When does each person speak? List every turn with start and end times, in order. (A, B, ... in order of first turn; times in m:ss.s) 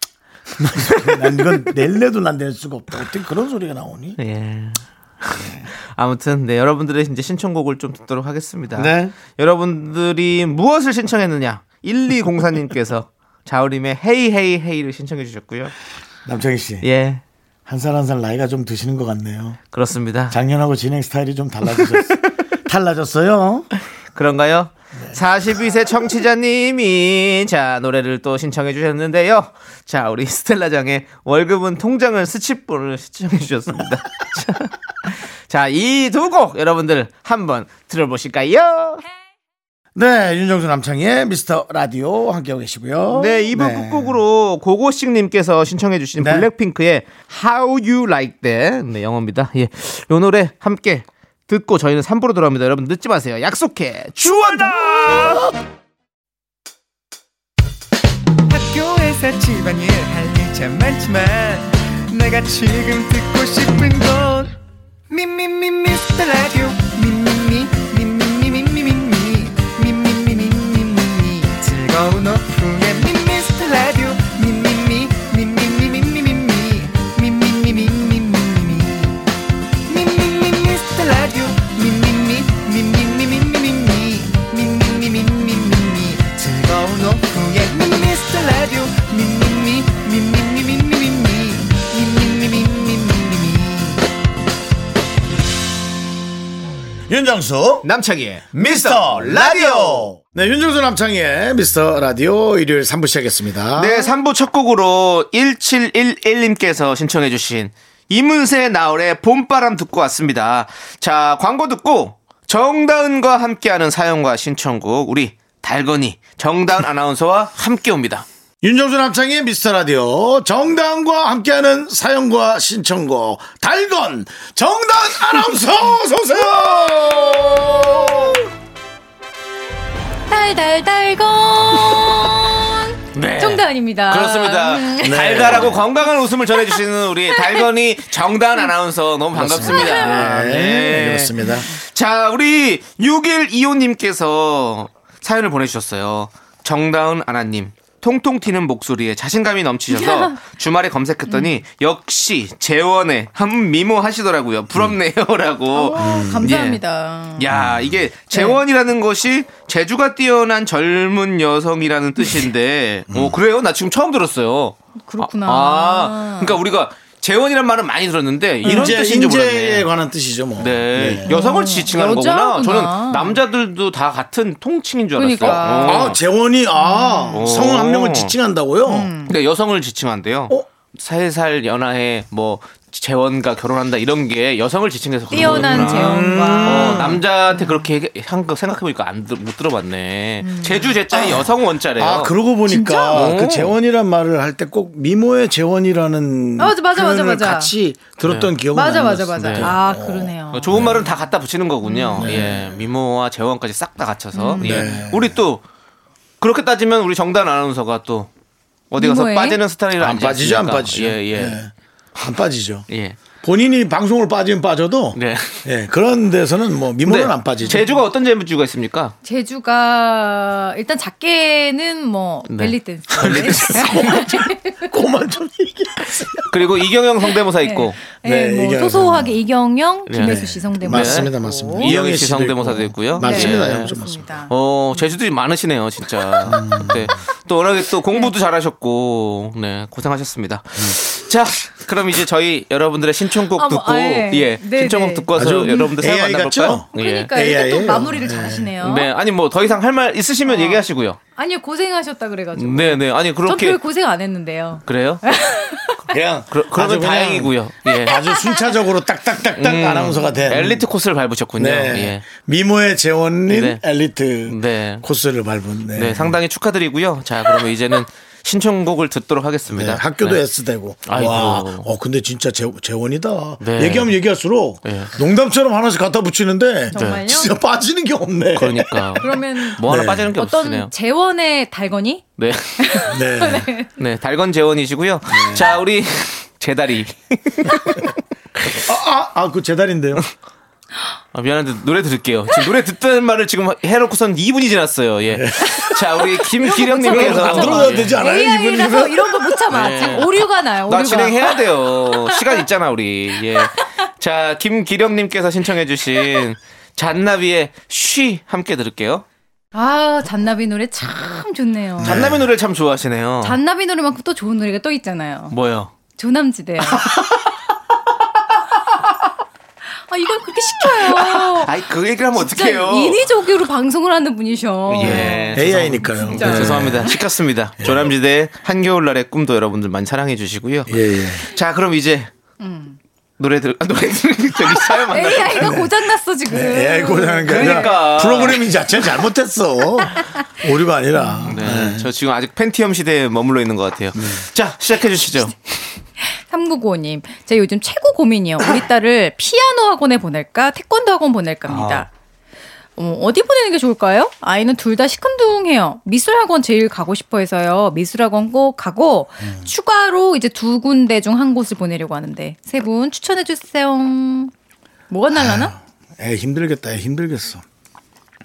0:00.5-0:04.2 A
0:01.0-0:01.4 B
0:04.2-0:15.7 B
0:05.4-0:05.7 A
0:08.7-0:09.2 A
0:16.2-0:16.8 A
0:16.8-0:17.2 B
0:17.7-0:19.6 A
0:19.7-0:20.4 B
0:20.3-0:23.7 A
0:21.8-0:22.2 B
0:24.1-0:39.0 B
0:24.9-0:25.2 A
0:39.9-0:44.2 A
0:43.1-0:55.5 B
0:46.2-0:46.5 A
0:54.2-0:55.4 A
0:58.5-1:04.5 C
1:05.1-1:19.2 C
1:19.9-1:34.0 C
1:37.1-1:37.9 A
1:37.8-1:40.1 B
1:38.6-1:44.1 A
1:43.8-1:58.2 B
1:58.6-2:08.4 A
2:10.3-2:15.7 D
2:13.1-2:36.8 B
2:15.0-2:15.8 A
2:17.3-2:17.6 D
2:19.3-2:21.7 A
2:19.6-2:20.2 D
2:21.4-2:21.7 D
2:29.9-2:30.4 D
2:31.3-2:31.6 D
2:35.7-2:37.5 D
2:36.0-2:36.6 A
2:37.4-2:49.9 B
2:37.5-2:38.0 A
2:38.3-2:38.6 D
2:43.1-2:43.4 A
2:45.0-2:46.6 D
2:48.6-2:48.9 D
2:48.6-2:51.4 A
2:50.6-2:56.2 B
2:51.2-2:53.4 D
2:55.2-2:56.1 D
2:55.4-2:59.1 A
2:56.7-2:57.4 D
2:57.3-2:58.3 B
2:58.8-2:59.3 D
2:59.3-3:12.3 B
3:05.3-3:07.9 D
3:05.3-3:07.2 A
3:10.4-3:11.0 D
3:11.1-3:21.0 A
3:12.7-3:13.2 D
3:13.1-3:13.7 B
3:16.6-3:17.7 D
3:18.2-3:18.5 B
3:18.7-3:21.0 D
3:19.4-3:19.7 B
3:20.5-3:25.6 B
3:21.8-3:22.4 D
3:22.2-3:22.8 A
3:24.3-3:24.9 D
3:24.6-3:25.4 A
3:26.4-3:28.3 B
3:28.9-3:31.6 B
3:29.0-3:29.6 D
3:30.0-3:32.9 A
3:32.9-3:33.2 B
3:33.4-3:37.8 A
3:35.1-3:35.6 B
3:37.0-3:39.1 B
3:37.6-3:38.0 D
3:39.2-3:44.9 D
3:42.5-3:44.3 B
3:43.2-3:46.5 A
3:46.5-3:48.0 B
3:47.6-3:51.9 D
3:48.2-3:49.4 A
3:50.1-3:53.9 B
3:50.2-3:54.4 A
3:53.2-3:54.5 D
3:54.5-4:07.3 B
3:56.5-3:57.1 A
4:03.5-4:05.9 D
4:05.3-4:08.7 A
4:06.9-4:09.1 D
4:08.8-4:11.2 B
4:10.4-4:16.0 D
4:12.6-4:13.8 B
4:14.8-4:15.2 B
4:16.0-4:20.8 A
4:16.5-4:18.2 B
4:17.9-4:18.7 D
4:19.6-4:22.2 B
4:21.6-4:26.4 A
4:23.5-4:23.8 B
4:24.5-4:25.0 B
4:25.9-4:30.4 B
4:29.7-4:40.3 A
4:31.0-4:31.9 B
4:33.6-4:34.1 B
4:34.8-4:35.1 B
4:36.9-4:37.5 D
4:36.9-4:37.2 B
4:38.5-4:40.9 B
4:39.2-4:39.8 D
4:40.4-4:43.9 D
4:42.4-4:43.0 B
4:43.0-4:43.7 A
4:44.0-4:48.0 B
4:45.3-4:45.7 A
4:48.8-4:50.2 A
4:51.3-4:58.1 B
4:55.3-4:55.9 A
4:55.7-5:02.6 D
4:57.0-5:00.2 A
4:59.7-5:00.3 B
5:00.9-5:09.2 B
5:09.7-5:12.3 D
5:12.0-5:12.4 A
5:12.0-5:13.6 B
5:13.4-5:15.5 D
5:15.5-5:15.9 B
5:16.2-5:17.2 D
5:16.9-5:17.4 B
5:20.1-5:21.8 D
5:21.0-5:23.2 B
5:22.3-5:27.2 D
5:24.9-5:32.3 B
5:25.0-5:27.1 A
5:27.8-5:28.1 A
5:30.9-5:31.4 A
5:32.6-5:33.0 D
5:33.4-5:35.7 B
5:34.7-5:38.3 D
5:35.5-5:35.9 A
5:36.5-5:42.1 A
5:37.5-5:38.6 B
5:41.1-5:41.5 D
5:41.5-5:45.6 B
5:44.2-5:44.4 A
5:46.2-5:52.1 D
5:51.7-5:52.0 A
5:53.0-6:04.5 D
6:05.1-6:05.7 D
6:05.3-6:07.6 A